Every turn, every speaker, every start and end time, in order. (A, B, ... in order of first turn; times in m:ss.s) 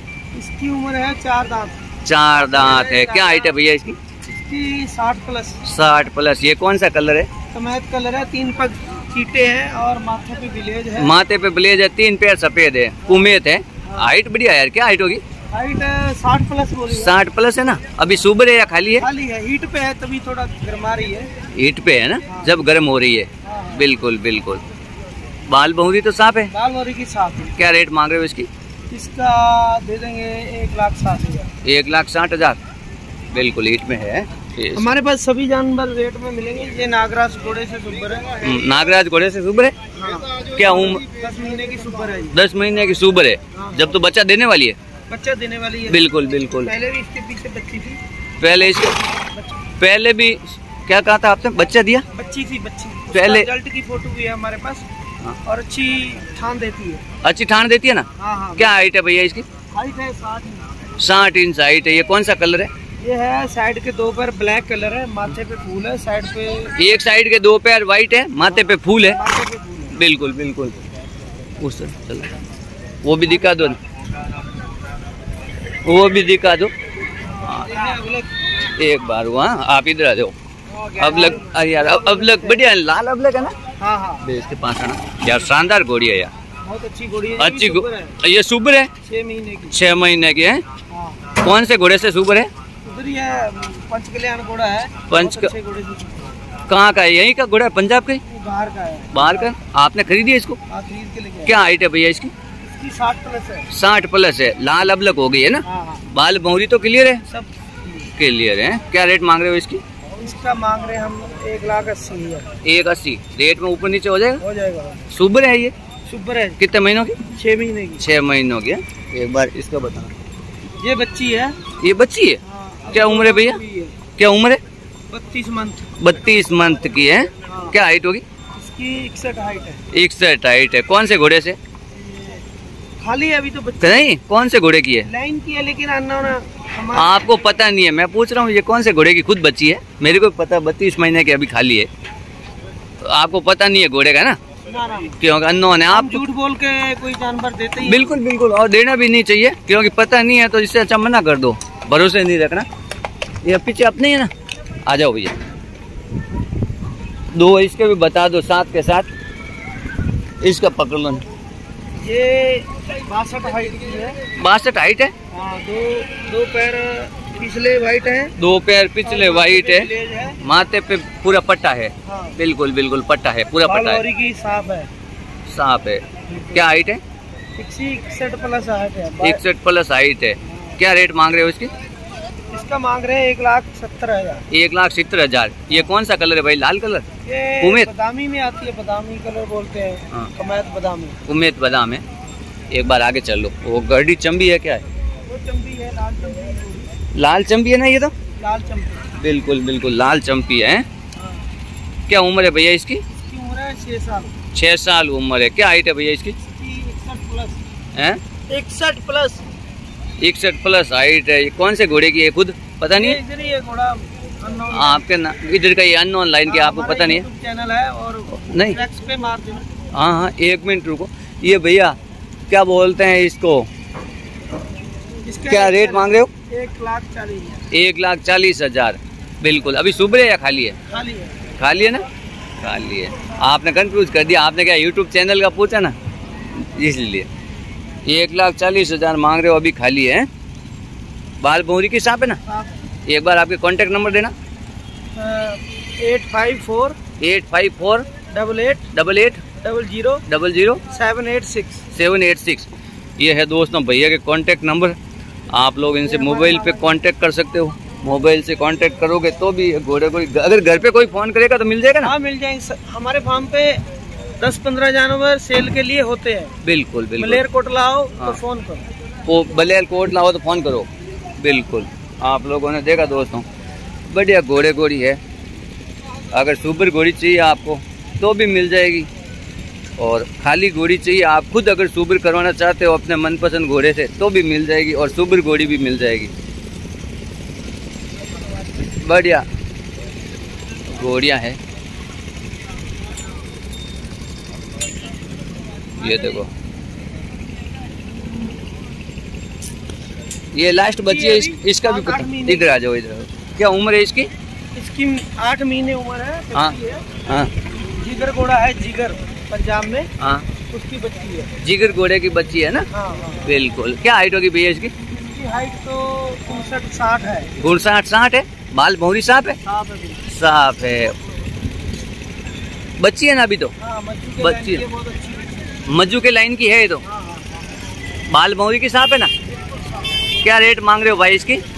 0:00.3-0:01.8 A
0:02.0-0:04.0 B
0:02.6-0:03.5 A
0:04.3-0:05.6 A
0:05.6-0:07.3 B
0:07.5-0:11.1 A
0:11.0-0:15.2 B
0:13.0-0:14.1 A
0:15.5-0:17.1 A
0:16.9-0:19.0 B
0:19.0-0:21.3 A
0:21.5-0:24.6 B
0:22.3-0:22.6 A
0:23.4-0:23.9 A
0:25.5-0:26.5 B
0:26.5-0:27.6 A
0:27.6-0:28.5 B
0:28.9-0:31.5 A
0:31.6-0:32.6 B
0:33.3-0:34.9 B
0:34.7-0:38.4 A
0:38.4-0:39.7 B
0:39.9-0:42.4 A
0:40.5-0:41.0 B
0:42.3-0:44.8 B
0:43.5-0:44.0 A
0:45.1-0:48.0 A
0:45.9-0:46.7 B
0:48.4-0:48.9 B
0:48.5-0:49.6 A
0:49.8-0:52.0 B
0:52.1-0:54.8 A
0:53.1-0:53.5 B
0:55.4-0:57.0 A
0:57.2-0:59.4 B
0:58.2-0:58.7 A
0:59.7-1:00.8 A
1:01.0-1:02.7 B
1:03.0-1:06.9 A
1:06.8-1:09.2 B
1:08.4-1:10.0 A
1:09.9-1:10.8 B
1:11.6-1:12.3 B
1:13.0-1:13.8 B
1:15.8-1:16.7 B
1:17.1-1:18.3 A
1:18.7-1:20.3 B
1:20.7-1:22.6 A
1:21.0-1:23.5 B
1:23.8-1:24.3 A
1:24.2-1:26.3 B
1:26.6-1:28.2 A
1:27.4-1:28.9 B
1:29.0-1:29.7 A
1:29.7-1:30.6 B
1:30.9-1:31.4 A
1:31.4-1:32.5 B
1:32.8-1:36.3 A
1:35.1-1:35.5 B
1:36.7-1:38.2 B
1:38.3-1:39.5 A
1:39.1-1:40.6 B
1:40.7-1:41.6 A
1:41.4-1:42.3 B
1:42.6-1:43.7 A
1:43.7-1:47.2 B
1:45.6-1:46.0 A
1:47.3-1:48.1 A
1:48.2-1:49.8 B
1:50.1-1:52.5 A
1:52.6-1:54.4 B
1:54.4-1:55.1 A
1:55.1-1:55.7 B
1:56.1-1:56.6 A
1:56.6-1:57.2 B
1:57.3-1:58.0 A
1:58.0-2:00.1 B
2:00.8-2:01.6 A
2:01.8-2:02.4 B
2:02.4-2:04.0 A
2:02.9-2:03.6 B
2:04.2-2:04.6 B
2:05.1-2:05.9 A
2:06.0-2:08.2 B
2:07.5-2:07.8 A
2:08.6-2:09.8 A
2:09.9-2:11.6 B
2:11.9-2:12.4 A
2:13.0-2:14.1 A
2:13.8-2:15.1 B
2:15.0-2:17.2 A
2:16.9-2:21.9 B
2:23.0-2:24.4 B
2:24.6-2:25.2 A
2:25.2-2:26.2 B
2:25.9-2:28.1 A
2:27.8-2:32.6 B
2:33.4-2:34.3 B
2:34.8-2:35.4 B
2:37.3-2:39.1 B
2:40.4-2:41.2 B
2:42.0-2:44.2 A
2:44.4-2:45.1 B
2:45.3-2:48.3 A
2:48.4-2:54.0 B
2:49.0-2:50.4 A
2:52.0-2:52.4 A
2:53.6-2:54.9 A
2:55.5-2:57.0 B
2:56.3-2:56.6 A
2:57.6-2:59.4 A
2:59.2-3:01.7 B
3:00.4-3:00.8 A
3:02.5-3:04.4 A
3:04.5-3:07.0 B
3:07.2-3:11.2 A
3:07.6-3:07.9 B
3:11.3-3:12.0 B
3:12.7-3:14.8 B
3:15.2-3:16.9 A
3:17.1-3:18.1 B
3:18.4-3:19.1 A
3:19.2-3:20.8 B
3:21.2-3:21.5 A
3:22.1-3:23.0 B
3:23.2-3:24.3 A
3:24.5-3:26.4 B
3:26.5-3:27.6 A
3:27.9-3:28.2 B
3:28.5-3:29.5 A
3:30.2-3:33.2 B
3:32.9-3:35.0 A
3:34.7-3:37.2 B
3:36.4-3:39.6 A
3:38.4-3:38.8 B
3:39.9-3:42.0 B
3:42.5-3:43.7 B
3:45.2-3:47.7 A
3:45.5-3:46.3 B
3:47.7-3:50.8 B
3:50.9-3:51.5 A
3:51.6-3:52.0 B
3:52.6-3:55.9 B
3:56.6-3:57.3 B
3:58.0-4:00.3 B
4:01.4-4:02.4 B
4:02.4-4:02.8 A
4:03.0-4:04.3 B
4:05.2-4:07.0 A
4:07.2-4:08.0 B
4:08.3-4:08.9 A
4:08.9-4:09.4 B
4:09.6-4:10.2 A
4:10.3-4:10.8 B
4:10.9-4:11.8 A
4:11.9-4:15.0 B
4:15.5-4:22.1 B
4:16.0-4:17.0 A
4:22.0-4:23.8 A
4:24.4-4:26.5 A
4:26.6-4:27.4 B
4:27.2-4:28.8 A
4:29.2-4:33.4 B
4:34.1-4:35.2 B
4:36.3-4:39.1 B
4:40.0-4:46.3 B
4:48.9-4:49.4 B
4:50.9-4:51.6 B
4:56.0-4:56.5 B
5:00.5-5:04.3 B
5:01.0-5:02.8 A
5:04.7-5:07.1 A
5:07.2-5:07.5 B
5:07.9-5:10.1 A
5:10.2-5:10.4 B
5:10.7-5:11.5 A
5:11.6-5:12.9 B
5:12.9-5:13.5 A
5:13.4-5:14.9 B
5:15.0-5:17.5 A
5:17.6-5:19.6 B
5:19.6-5:20.2 A
5:20.3-5:21.1 B
5:23.0-5:23.7 B
5:23.8-5:25.6 A
5:24.4-5:24.8 B
5:25.8-5:27.0 B
5:27.0-5:27.6 A
5:28.3-5:29.3 B
5:29.6-5:30.0 A
5:30.4-5:31.6 B